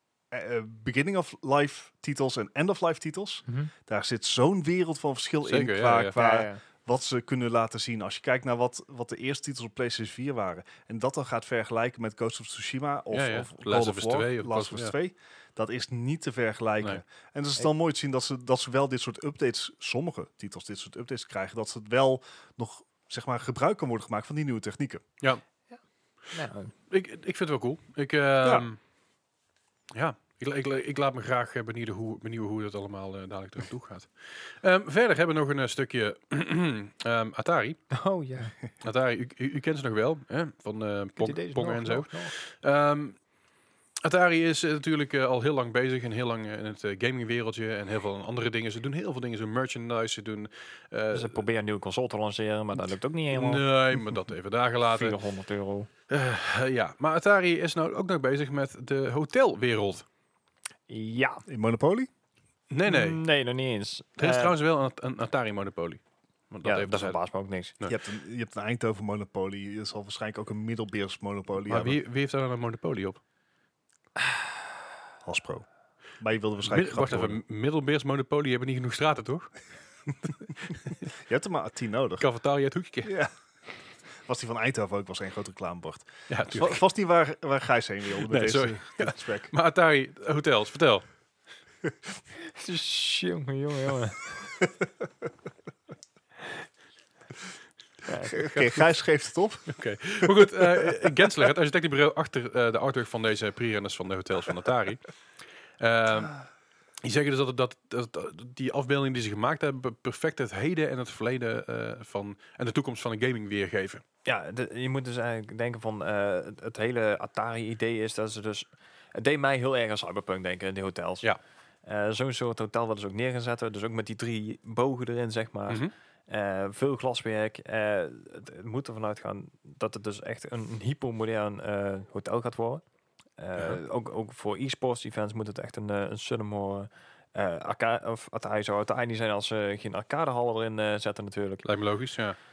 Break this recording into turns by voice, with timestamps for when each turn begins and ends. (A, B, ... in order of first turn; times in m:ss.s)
0:00.3-0:25.0 A
0:05.4-0:06.2 B
0:06.2-0:06.6 C
0:13.1-0:14.9 B
0:26.3-0:26.7 C
0:26.9-0:28.8 B
0:28.4-0:28.7 A
0:29.9-0:37.8 B
0:37.9-0:38.6 C
0:38.8-0:43.2 B
0:41.2-0:42.3 C
0:44.0-0:51.4 B
0:51.1-0:53.6 C
0:53.3-0:55.2 B
0:55.0-0:55.9 C
0:56.1-1:00.0 B
1:00.9-1:01.4 C
1:01.5-1:02.1 A
1:02.7-1:03.2 B
1:02.9-1:04.6 C
1:04.2-1:07.2 B
1:06.6-1:07.7 C
1:07.9-1:12.0 A
1:11.7-1:13.2 B
1:15.2-1:15.7 A
1:16.2-1:17.4 A
1:16.7-1:19.5 B
1:21.1-1:22.3 A
1:22.2-1:23.1 B
1:23.0-1:23.3 A
1:24.3-1:29.5 A
1:26.3-1:26.8 B
1:28.2-1:31.0 B
1:32.5-1:34.4 C
1:38.1-1:38.4 C
1:38.3-1:40.9 A
1:39.7-1:45.1 B
1:45.8-1:46.4 B
1:47.0-1:54.0 B
1:54.2-2:01.3 C
2:01.8-2:12.8 C
2:13.4-2:21.6 C
2:21.6-2:22.4 B